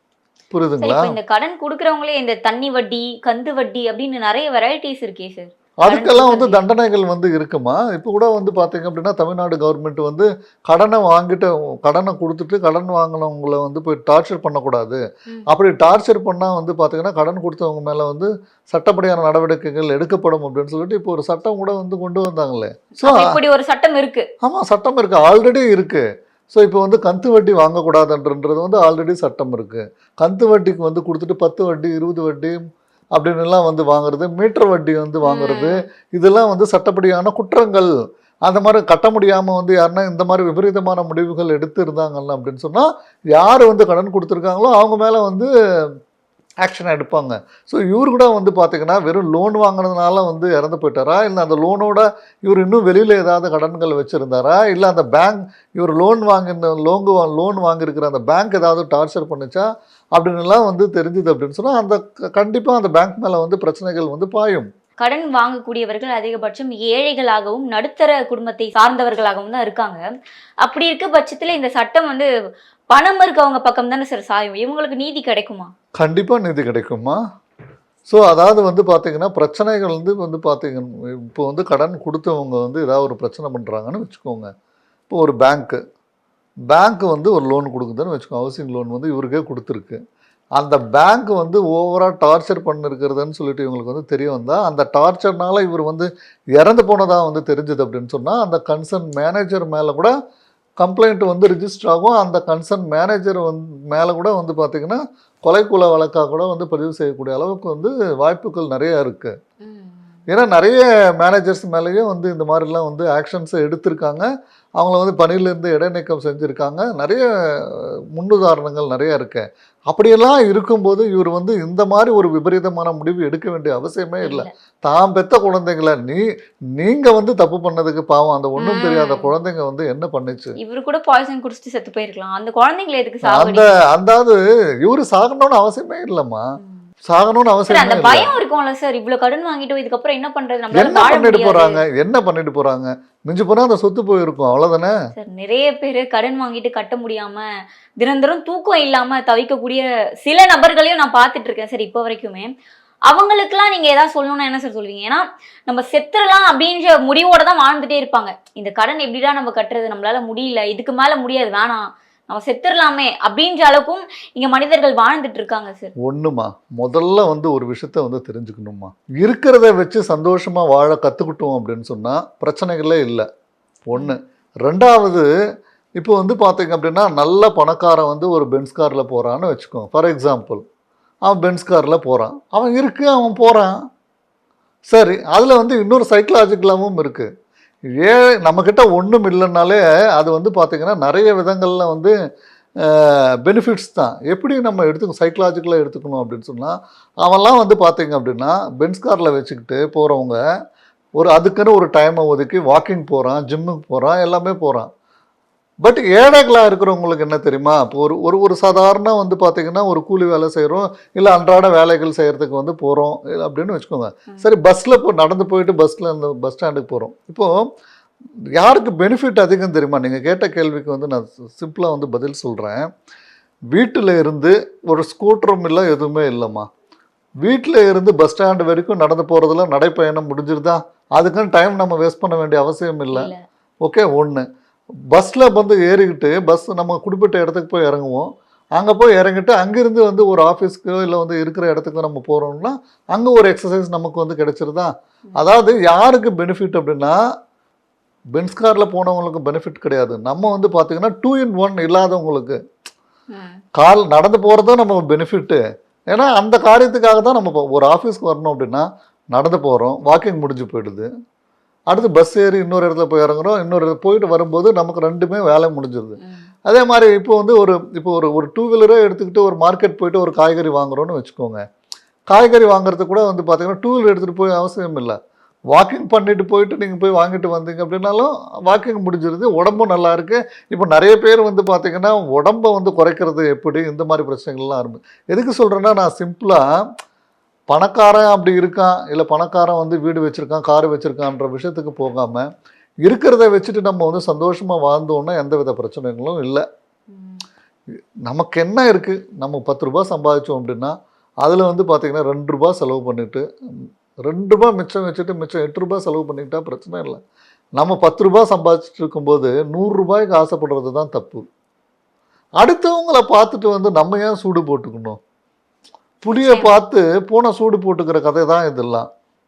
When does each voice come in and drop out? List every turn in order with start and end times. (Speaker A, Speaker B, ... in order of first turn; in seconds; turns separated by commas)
Speaker A: 0.5-1.1, Speaker B: 0.8-6.6, Speaker A: 5.8-23.4, Speaker B: 23.0-24.3, Speaker A: 24.4-32.6, Speaker A: 33.2-37.9, Speaker B: 35.2-35.8, Speaker A: 38.5-45.5, Speaker A: 46.6-64.7, Speaker B: 65.0-70.0, Speaker B: 70.6-72.3, Speaker B: 72.9-75.7, Speaker A: 76.0-77.2, Speaker A: 78.1-84.5, Speaker A: 85.1-85.8, Speaker A: 86.7-90.0, Speaker A: 90.6-100.1, Speaker A: 100.8-109.3, Speaker B: 109.6-110.0, Speaker A: 110.3-114.3, Speaker A: 114.8-126.2, Speaker B: 124.2-124.5, Speaker A: 126.8-130.6, Speaker B: 128.6-129.3, Speaker B: 130.6-133.7, Speaker A: 133.3-136.4, Speaker A: 137.1-138.3, Speaker B: 137.7-141.8, Speaker A: 140.7-144.9, Speaker B: 145.2-147.4, Speaker B: 148.0-152.5, Speaker B: 153.1-165.9, Speaker A: 166.0-173.3, Speaker A: 173.9-175.3, Speaker A: 176.0-180.6, Speaker A: 181.3-183.8, Speaker A: 184.9-187.3, Speaker A: 188.0-192.1, Speaker A: 192.9-200.4, Speaker A: 201.2-204.9, Speaker A: 205.8-217.7, Speaker A: 218.6-222.9, Speaker A: 223.7-226.7, Speaker A: 227.4-233.3, Speaker B: 233.1-233.4, Speaker A: 233.8-234.5, Speaker A: 235.1-247.2, Speaker A: 248.3-252.6, Speaker B: 253.3-253.6, Speaker A: 253.8-261.1, Speaker A: 261.9-271.6, Speaker B: 266.2-266.5, Speaker A: 272.3-275.2, Speaker A: 275.7-286.6, Speaker A: 287.7-292.5, Speaker A: 293.1-296.6, Speaker B: 297.1-297.4, Speaker A: 298.3-303.4, Speaker A: 304.3-307.2, Speaker A: 307.8-311.4, Speaker A: 312.6-315.2, Speaker A: 316.2-319.1, Speaker B: 316.4-316.8